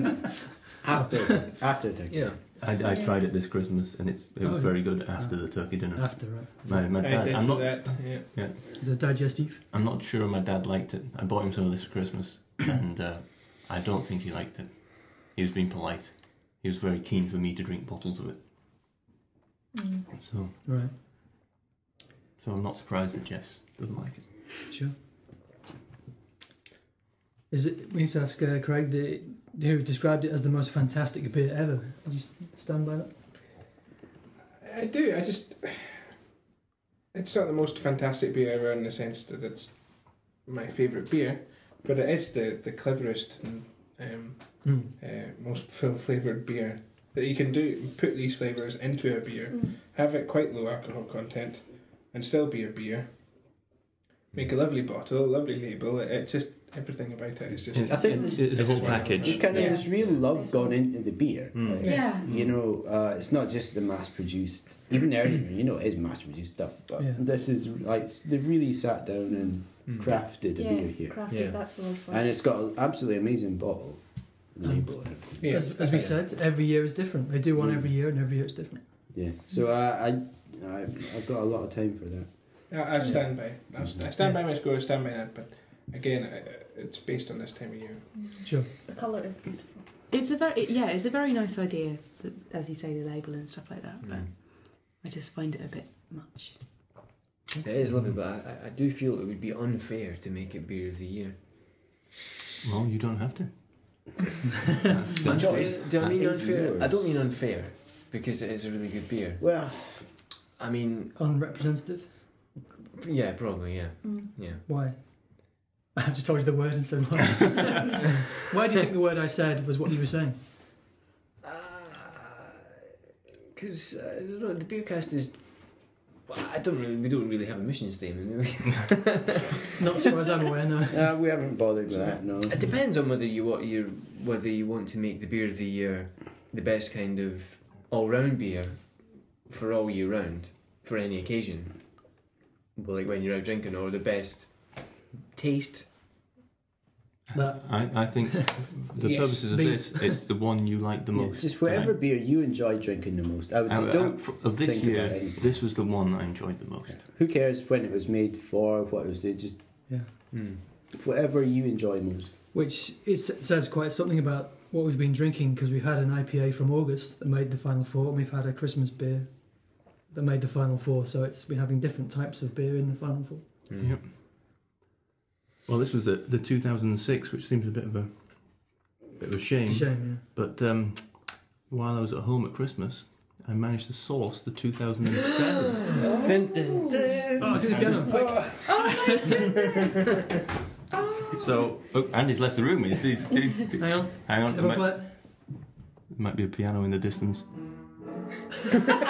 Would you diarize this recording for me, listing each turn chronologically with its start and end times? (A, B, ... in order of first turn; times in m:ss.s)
0:00.8-0:02.4 A
0:00.9-0:01.2 B
0:02.1-0:02.4 C
0:02.6-0:18.5 D
0:02.8-0:03.2 E
0:04.4-0:06.8 B
0:07.0-0:08.4 F
0:08.7-0:09.6 B
0:19.7-0:20.1 E
0:20.2-0:20.6 D
0:20.6-0:20.9 B
0:22.4-0:24.5 D
0:24.7-0:25.0 B
0:27.5-0:33.2 B
0:34.6-0:36.2 F
0:37.1-0:53.6 F
0:44.6-0:44.9 B
0:49.5-0:49.8 E
0:54.3-0:59.6 F
0:57.7-0:59.8 D
0:57.9-1:15.7 A
0:58.6-1:00.2 C
0:59.5-1:00.8 E
1:01.5-1:02.1 D
1:01.8-1:02.3 G
1:02.2-1:02.5 C
1:09.9-1:10.2 C
1:10.5-1:12.3 E
1:11.3-1:11.6 C
1:14.6-1:19.1 B
1:15.4-1:16.1 F
1:15.9-1:16.2 C
1:17.6-1:17.9 A
1:19.1-1:22.7 A
1:22.7-1:28.1 F
1:23.8-1:24.1 A
1:28.1-1:29.9 E
1:30.1-1:37.0 G
1:34.0-1:34.3 C
1:37.6-1:42.0 C
1:42.6-1:44.1 D
1:44.8-1:46.1 D
1:45.2-1:47.1 A
1:45.2-1:49.4 C
1:49.4-1:50.2 A
1:50.6-1:51.2 C
1:51.2-1:52.2 B
1:53.0-1:54.6 C
1:54.0-1:54.3 E
1:54.7-2:00.4 B
2:01.4-2:02.5 C
2:03.5-2:09.4 C
2:09.8-2:11.1 B
2:10.9-2:12.6 A
2:11.9-2:25.9 C
2:27.3-2:32.0 D
2:27.3-2:28.5 B
2:29.0-2:29.6 F
2:29.1-2:30.2 B
2:31.2-2:35.8 A
2:33.7-2:37.1 D
2:36.9-2:40.3 A
2:40.3-2:40.6 C
2:40.9-2:42.4 A
2:42.5-2:53.5 B
2:53.7-2:54.0 C
2:53.8-2:54.2 D
2:55.7-3:05.9 D
2:59.6-3:00.2 B
3:06.0-3:07.0 G
3:06.0-3:07.0 E
3:06.1-3:08.2 C
3:07.4-3:08.6 B
3:07.5-3:08.1 D
3:08.7-3:09.5 G
3:11.3-3:18.0 D
3:13.8-3:15.1 B